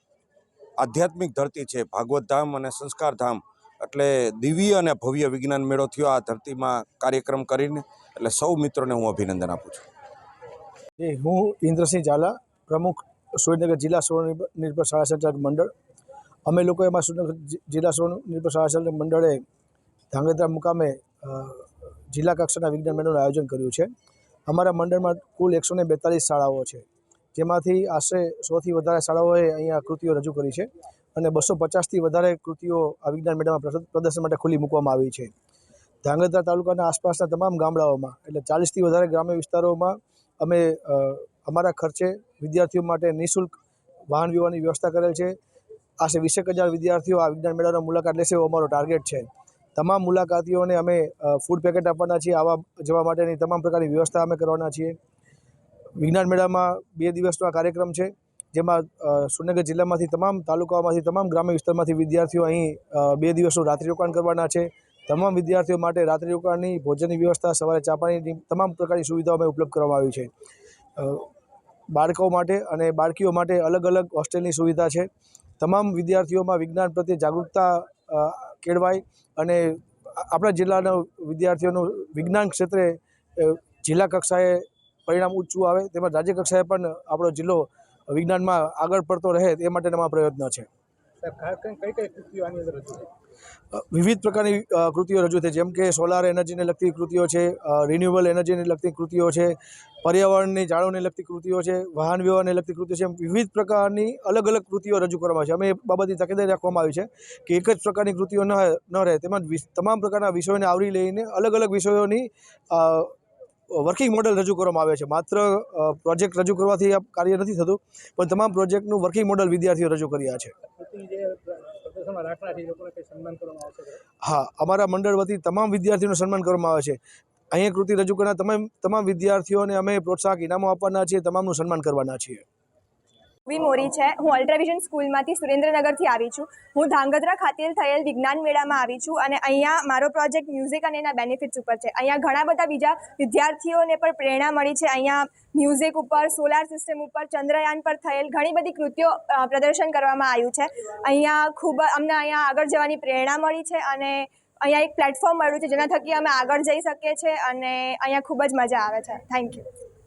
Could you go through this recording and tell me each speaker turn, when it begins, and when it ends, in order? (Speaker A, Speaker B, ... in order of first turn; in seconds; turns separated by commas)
Speaker A: 0.8-9.8, Speaker B: 11.0-15.7, Speaker B: 16.5-19.4, Speaker B: 20.1-23.9, Speaker B: 24.5-26.8, Speaker B: 27.4-35.3, Speaker B: 36.0-43.5, Speaker B: 44.1-45.4, Speaker B: 46.0-55.0, Speaker B: 56.0-70.3, Speaker B: 71.0-71.3, Speaker B: 71.9-75.1, Speaker B: 75.6-90.7, Speaker C: 91.2-93.1, Speaker B: 93.7-113.1, Speaker B: 113.7-120.5, Speaker C: 120.7-124.0, Speaker B: 124.2-127.0, Speaker B: 127.5-132.4, Speaker D: 133.5-159.6